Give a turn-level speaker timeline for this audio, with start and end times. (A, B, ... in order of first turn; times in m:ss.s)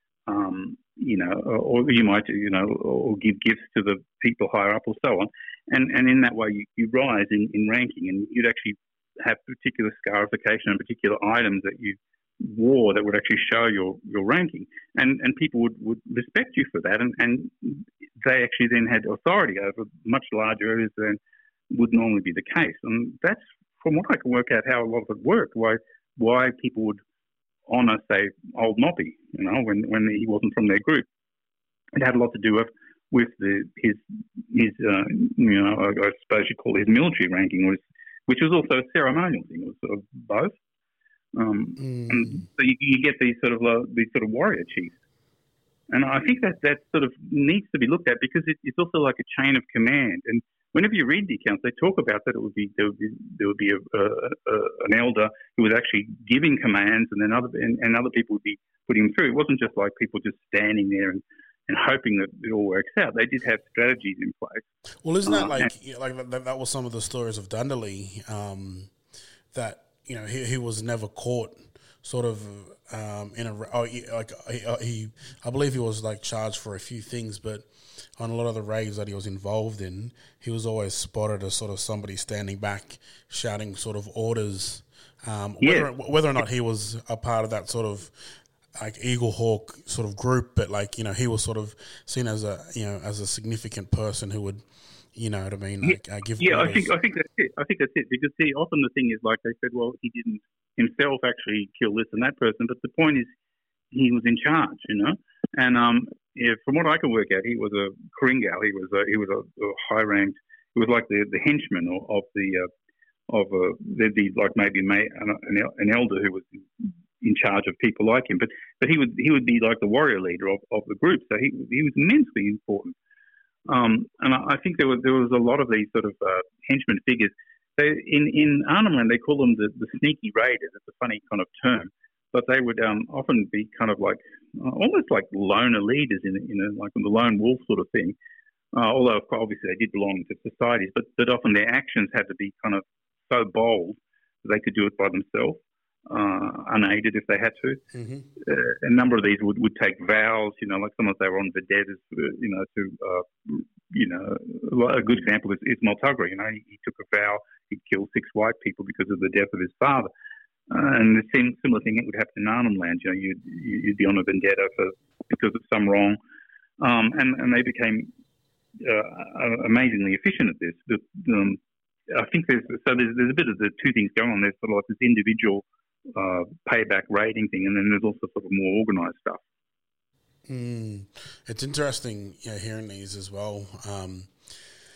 0:00.3-0:21.2 A
0:21.7-0:27.0 A
0:27.7-0:31.1 A
0:32.0-0:40.6 A
0:41.3-0:45.0 A
0:41.8-0:42.4 B
0:45.9-1:04.6 A
1:05.0-1:08.9 B
1:05.2-1:05.7 A
1:09.5-1:34.6 B
1:25.6-1:25.9 A
1:35.1-1:36.9 B
1:35.8-1:43.3 A
1:43.9-1:52.7 A
1:53.3-2:02.9 A
2:03.7-2:18.2 A
2:18.7-2:27.8 A
2:27.9-2:28.3 B
2:28.4-2:40.1 A
2:40.7-2:46.2 A
2:46.8-2:48.1 A
2:48.8-2:59.4 A
3:00.5-3:04.3 B